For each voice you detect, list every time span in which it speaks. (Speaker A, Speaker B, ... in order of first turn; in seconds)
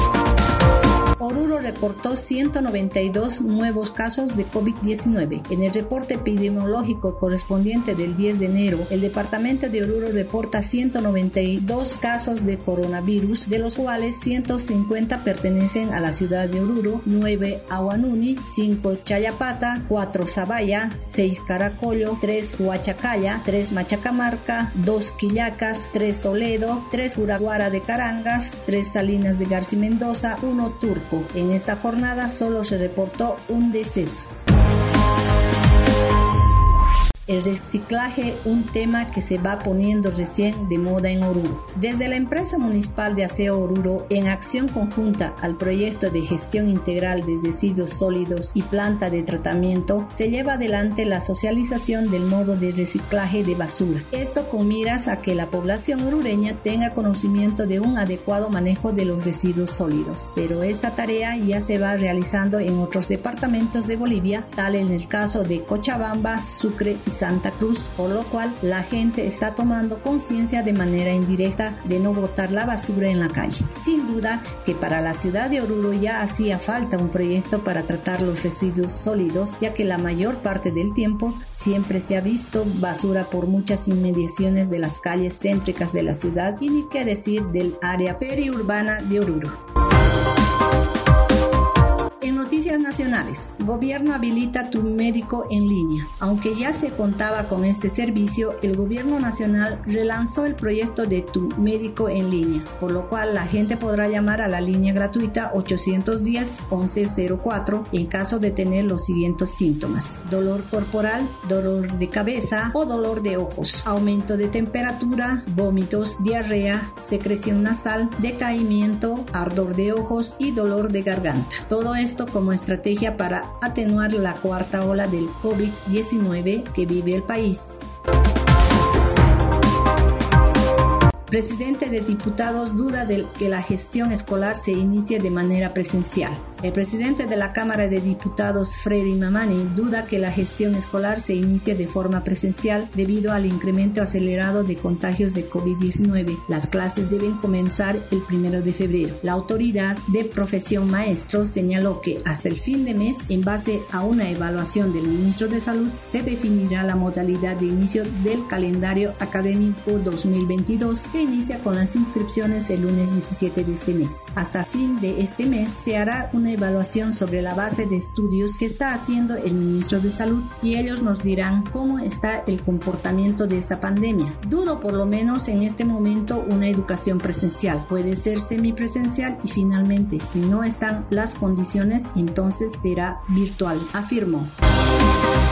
Speaker A: 1.2-34.3, 37.2-89.6, 92.2-127.8, 131.3-184.5